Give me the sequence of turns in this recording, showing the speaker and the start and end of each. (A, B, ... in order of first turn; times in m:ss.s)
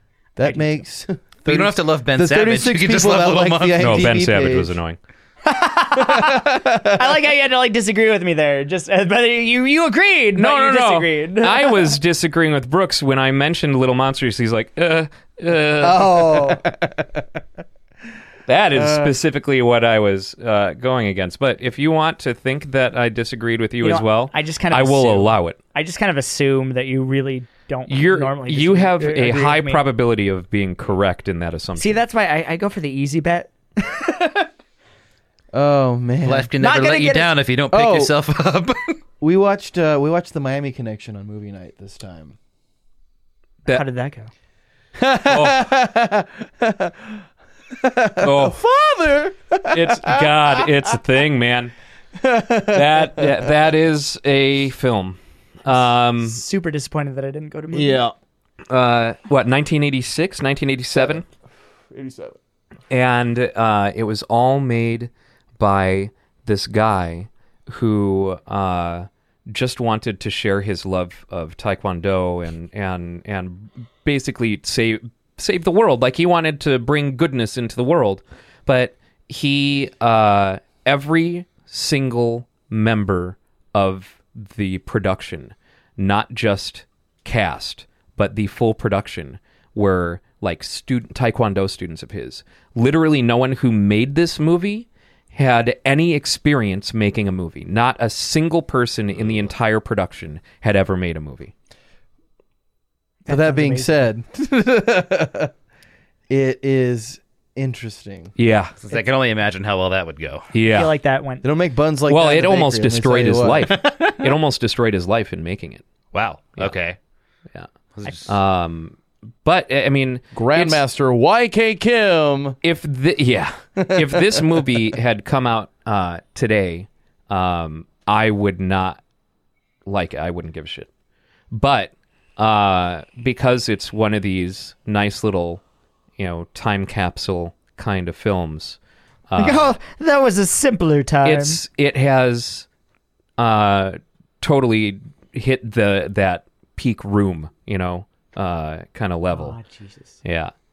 0:00.4-0:04.8 A
0:00.4-0:00.8 B
0:01.5-0:04.1 C
0:03.8-0:05.0 D
0:05.4-0:12.0 B
0:06.0-0:07.0 A
0:10.4-0:16.6 D
0:15.8-0:17.3 A
0:18.5-0:25.6 D
0:18.7-0:19.2 A
0:23.8-0:29.8 B
0:27.9-0:32.0 D
0:31.8-0:34.5 B
0:35.5-0:36.5 A
0:36.2-0:39.0 C
0:36.6-0:37.4 B
0:37.7-0:38.1 A
0:39.2-0:42.4 A
0:43.7-0:44.3 B
0:45.0-0:47.2 A
0:45.3-0:45.7 D
0:47.7-0:51.0 A
0:48.2-0:48.6 D
0:49.7-0:51.7 D
0:52.2-0:53.5 A
0:52.7-0:56.4 D
0:55.7-0:58.0 B
0:57.7-0:58.1 A
0:58.7-1:01.2 D
1:01.0-1:01.2 A
1:01.9-1:02.4 A
1:02.9-1:41.5 D
1:43.2-1:44.1 B
1:43.3-1:45.5 A
1:46.3-1:48.3 A
1:48.4-1:48.8 D
1:48.8-1:50.5 C
1:50.5-1:50.9 D
1:50.7-1:51.5 B
1:51.4-1:53.8 A
1:52.1-1:55.8 D
1:56.1-1:57.0 C
1:58.0-1:58.3 C
1:58.2-2:00.8 D
2:00.3-2:02.6 A
2:02.6-2:09.0 D
2:03.8-2:04.6 A
2:09.9-2:10.9 D
2:11.5-2:15.6 D
2:16.2-2:18.8 D
2:19.3-2:19.8 D
2:19.4-2:21.6 B
2:21.2-2:22.7 D
2:23.4-2:29.6 D
2:29.3-2:30.1 B
2:30.2-2:30.5 D